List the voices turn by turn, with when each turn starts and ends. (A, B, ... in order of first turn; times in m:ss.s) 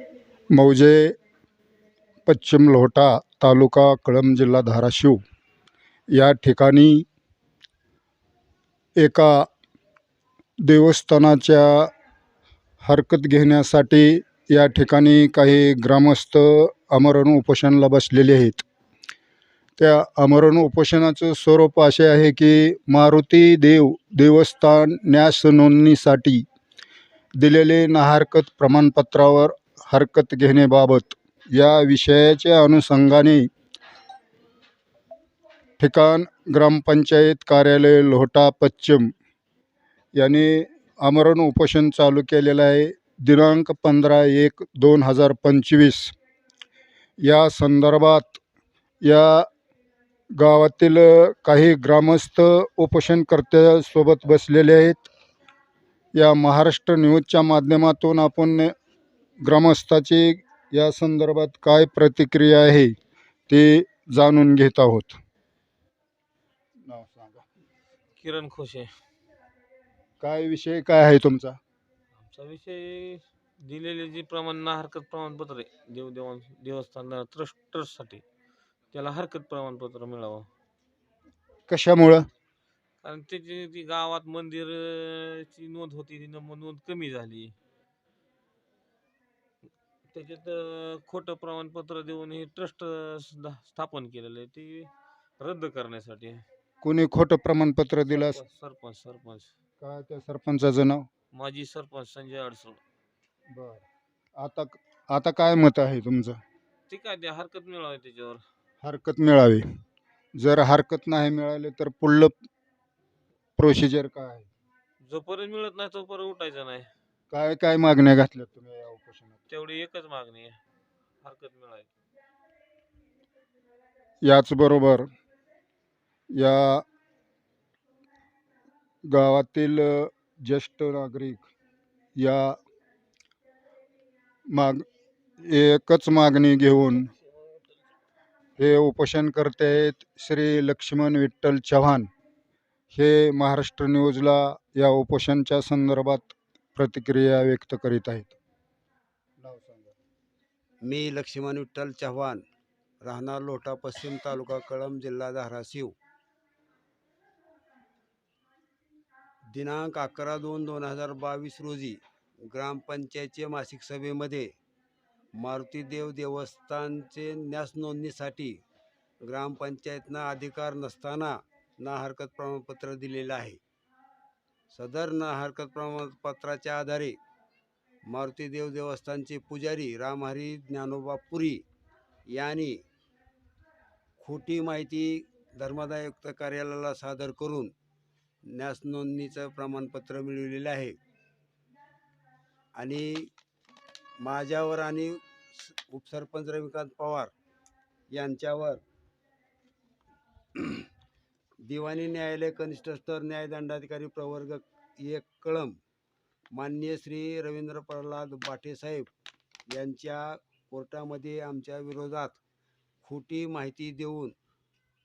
0:00.5-0:01.2 A
0:02.3-0:05.2 A
0:06.1-0:07.1 A
0:09.0-0:09.5 A
0:10.6-0:11.9 A
0:12.8-0:18.6 A
0:19.8-0:26.5 A
0:27.4-0:33.5 A
0:35.8-0:39.1 A
0:40.2-0:46.1 A
0:47.2-0:48.4 A
0:49.0-0:49.5 A
0:50.4-0:55.1 A
0:56.1-0:58.7 A
0:59.4-1:02.9 A
1:03.5-1:05.2 A
1:06.9-1:07.4 A
1:08.2-1:08.9 B
1:10.2-1:11.6 A
1:12.2-1:18.2 B
1:18.9-1:20.5 B
1:21.7-1:22.3 A
1:23.0-1:27.5 B
1:30.1-1:34.9 B
1:35.4-1:36.4 B
1:36.8-1:38.4 A
1:38.1-1:39.5 B
1:39.8-1:41.1 A
1:41.3-1:42.8 B
1:43.5-1:43.8 A
1:44.4-1:46.4 A
1:46.9-1:48.4 B
1:48.8-1:49.7 A
1:50.4-1:52.4 A
1:53.6-1:54.5 A
1:55.0-1:56.9 B
1:57.3-1:59.4 A
1:59.5-2:00.6 B
2:01.2-2:01.9 B
2:04.2-2:05.1 A
2:06.3-2:06.8 A
2:09.0-2:11.5 A
2:12.2-2:12.6 A
2:14.5-2:14.8 A
2:15.4-2:17.1 A
2:18.6-2:22.1 A
2:22.9-2:28.4 A
2:29.4-2:30.0 A
2:30.8-2:32.4 C
2:33.0-2:36.0 C
2:39.5-2:44.5 C
2:45.4-2:48.6 C
2:49.2-2:53.6 C
2:54.7-2:57.2 C
2:58.1-3:01.6 C
3:02.3-3:02.8 C
3:04.2-3:07.7 C
3:08.4-3:11.0 C
3:12.8-3:13.3 C
3:14.2-3:17.3 C
3:18.1-3:18.8 C
3:20.6-3:20.9 C
3:21.6-3:25.8 C
3:26.5-3:29.1 C
3:29.7-3:32.4 C
3:33.0-3:34.4 C